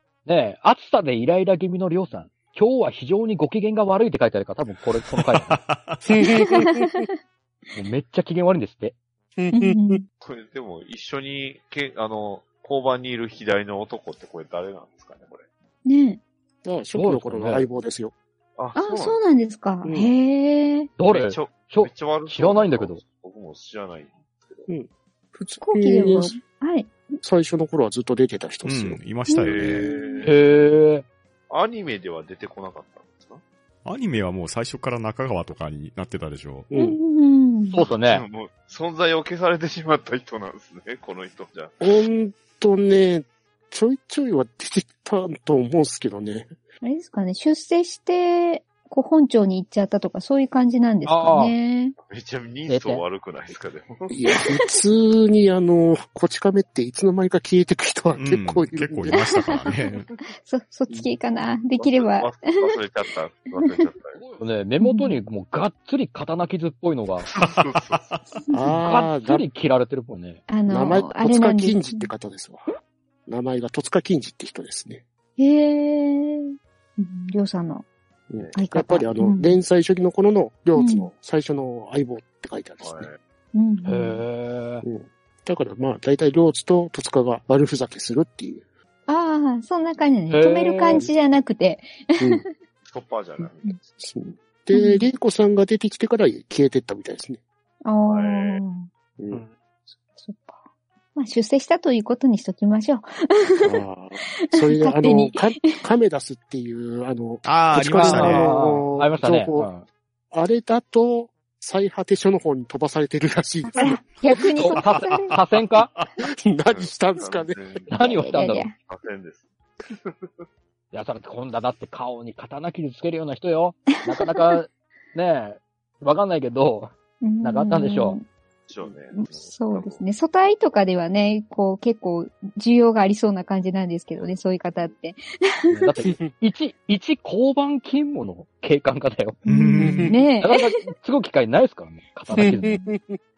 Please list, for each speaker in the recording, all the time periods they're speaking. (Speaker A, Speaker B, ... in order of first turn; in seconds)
Speaker A: 0.2-5.6, 7.7-8.9, 16.9-17.7, 21.0-23.0, 30.2-31.1, 37.7-38.2, 51.0-51.6, 52.7-53.0, 64.1-67.3, 68.8-70.4, 83.8-84.8, 90.3-91.0, 99.3-99.5, 107.9-109.8, 114.5-115.9, 117.9-118.7, 120.9-128.2, 135.7-139.4, 140.4-142.8
Speaker B: 5.0-6.0, 28.6-29.9, 33.8-36.7, 58.2-60.1, 67.4-68.2, 107.4-108.5, 114.7-116.1, 139.4-140.2
Speaker C: 6.1-6.8, 9.4-10.0, 16.6-18.1, 19.8-20.1, 24.7-26.4, 27.2-29.0, 36.7-37.0, 41.8-46.5, 54.1-59.2, 68.5-69.5, 70.7-72.7, 73.2-75.0, 78.3-83.1, 84.8-88.6, 92.2-92.4, 94.0-97.4, 99.2-99.4, 103.6-109.7, 110.3-114.0, 116.4-117.9, 139.8-140.2, 142.3-143.2
Speaker D: 6.2-7.1, 9.5-10.0, 15.8-16.2, 18.8-20.9, 25.6-27.2, 29.3-30.2, 36.7-37.8, 46.8-52.0, 54.3-54.6, 59.1-62.7, 64.8-65.2, 68.5-68.8, 70.5-72.1, 75.4-77.8, 78.5-79.6, 80.8-81.1, 83.5-84.2, 89.1-92.5, 94.7-95.0, 97.8-98.9, 100.2-100.6, 101.1-103.8, 104.4-105.8, 113.6-115.3, 118.0-118.7, 124.1-124.5, 127.2-128.2, 129.1-136.0, 139.4-140.7, 142.3-142.9
Speaker E: 10.2-15.5, 18.6-19.2, 21.1-24.7, 29.4-30.3, 31.5-33.4, 37.8-41.9, 52.0-54.1, 61.8-64.2, 67.3-68.2, 82.8-83.2, 92.8-94.0, 98.1-98.6, 116.7-117.9, 118.7-120.4, 128.7-130.0, 134.1-134.4